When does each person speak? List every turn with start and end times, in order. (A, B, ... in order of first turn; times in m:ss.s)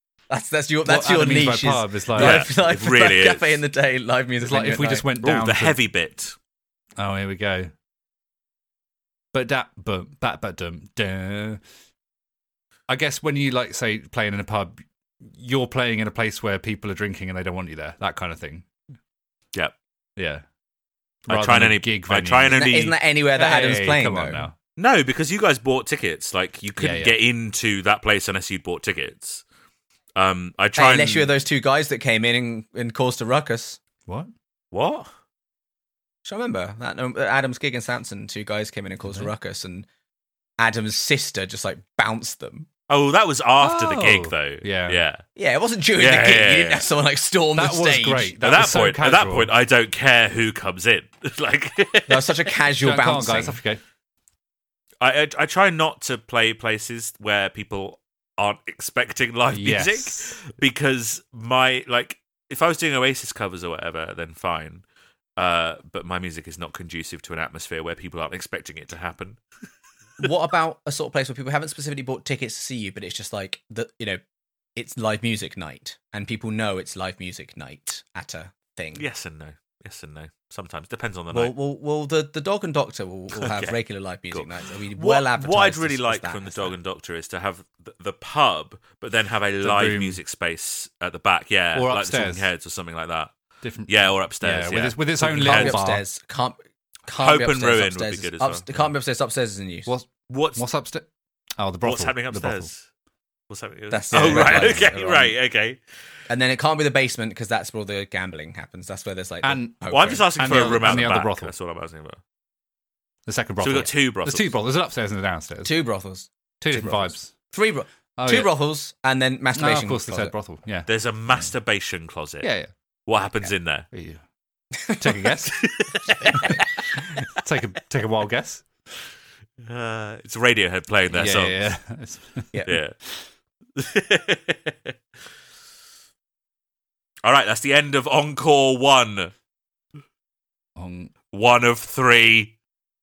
0:00.3-0:05.1 A
0:00.8-0:02.5 B
0:02.2-0:03.6 C
0:04.4-0:05.8 B
0:05.2-0:06.4 C
0:07.0-0:07.7 B
0:09.3-0:11.6 B
0:12.9-0:18.6 B
0:20.2-0:20.4 B
0:21.3-0:22.7 B
0:21.3-0:23.0 C
0:22.5-0:24.5 A
0:23.3-0:24.5 B
0:24.8-0:29.4 C
0:26.8-0:27.2 B
0:30.1-0:31.3 C
0:30.8-0:33.8 A
0:34.7-0:35.1 C
0:36.2-0:39.9 A
0:39.0-0:39.3 B
0:40.6-0:42.7 A
0:42.9-0:45.2 C
0:43.6-0:45.0 B
0:45.4-0:48.4 A
0:46.0-0:46.9 C
0:47.5-0:49.5 B
0:48.4-0:52.5 C
0:52.1-0:53.6 A
0:52.8-0:53.8 B
0:55.0-1:04.8 C
0:59.5-1:00.4 B
1:05.4-1:09.4 C
1:10.2-1:14.2 A
1:14.8-1:19.0 A
1:19.0-1:21.5 C
1:21.3-1:26.8 A
1:23.4-1:23.8 C
1:24.3-1:33.3 C
1:29.6-1:30.2 B
1:31.7-1:32.5 B
1:33.6-1:36.0 B
1:33.9-1:35.8 C
1:35.2-1:39.9 A
1:37.1-1:38.6 C
1:39.8-1:41.1 B
1:40.3-1:40.6 C
1:41.6-1:42.7 B
1:41.8-1:42.9 C
1:43.5-1:45.8 C
1:43.9-1:45.3 A
1:44.1-1:44.9 B
1:46.3-1:50.7 A
1:49.4-1:49.7 B
1:49.9-1:52.2 C
1:50.4-1:51.5 B
1:53.2-1:55.7 B
1:53.6-1:54.5 C
1:55.6-2:00.3 A
1:56.6-1:57.3 B
1:58.2-1:58.5 B
1:59.5-2:01.5 B
2:00.8-2:02.5 C
2:02.4-2:02.7 B
2:03.0-2:03.9 C
2:03.9-2:04.2 B
2:04.9-2:05.2 A
2:04.9-2:05.7 B
2:05.6-2:06.7 C
2:06.2-2:08.6 B
2:06.2-2:06.5 A
2:09.6-2:11.6 C
2:11.1-2:12.6 B
2:12.7-2:12.9 C
2:13.8-2:14.9 C
2:17.2-2:19.3 C
2:20.8-2:21.1 B
2:21.3-2:22.6 C